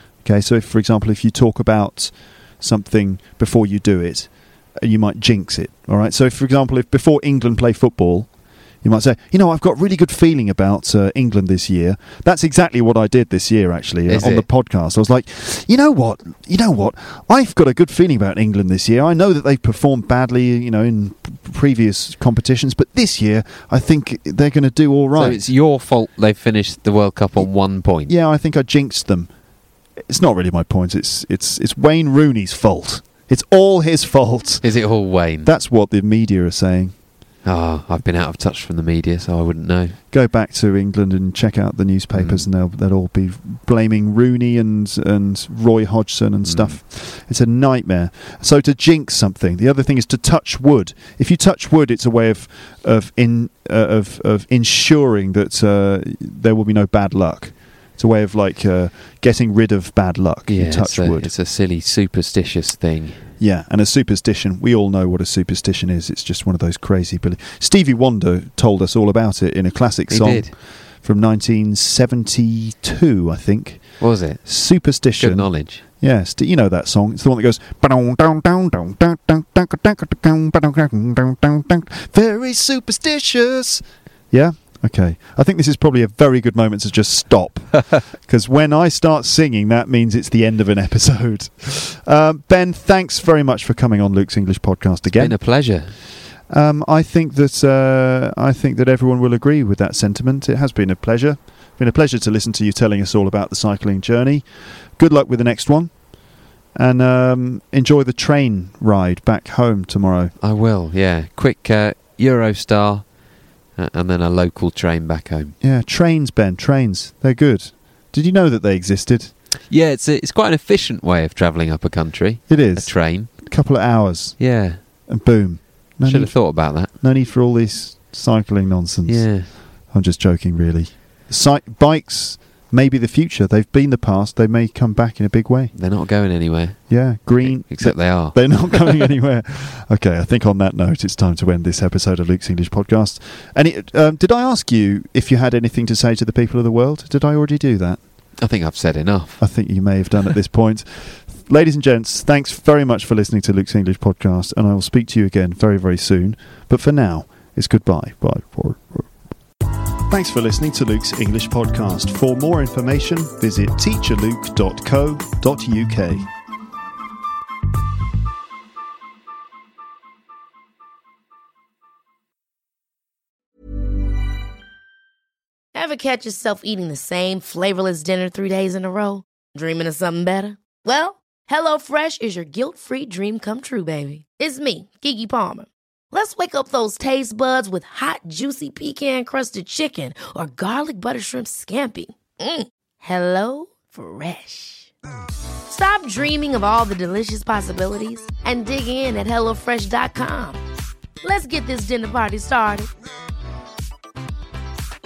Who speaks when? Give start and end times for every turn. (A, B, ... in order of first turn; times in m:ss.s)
0:00.2-0:08.3 A
0:08.8-0:25.4 A
0:14.1-0:14.5 B
0:25.2-0:28.1 B
0:28.1-0:29.3 A
0:30.0-0:34.6 A
0:34.6-0:35.5 B
0:35.4-0:36.9 A
0:37.4-0:40.0 B
0:40.1-1:01.3 A
0:42.1-0:42.4 B
0:46.5-0:46.8 B
1:00.5-1:03.2 B
1:03.4-1:10.5 A
1:10.1-1:10.5 B
1:11.0-1:13.8 A
1:14.0-1:14.4 B
1:14.4-1:15.5 A
1:15.2-1:15.8 B
1:16.0-1:35.4 A
1:35.2-1:35.9 B
1:36.5-1:44.4 A
1:45.0-1:45.9 A
1:46.8-1:50.3 A
1:50.4-1:53.1 B
1:53.8-1:55.6 B
1:55.6-1:59.3 A
1:59.7-2:03.3 B
2:02.5-2:04.4 A
2:04.4-2:04.8 B
2:05.1-2:15.7 A
2:06.0-2:06.9 B
2:09.1-2:09.5 B
2:15.8-2:19.1 B
2:16.9-2:28.0 A
2:28.4-2:29.4 B
2:29.4-2:39.1 A
2:40.1-2:46.3 A
2:55.7-3:14.9 C
3:15.7-3:20.6 C
3:21.2-3:22.9 C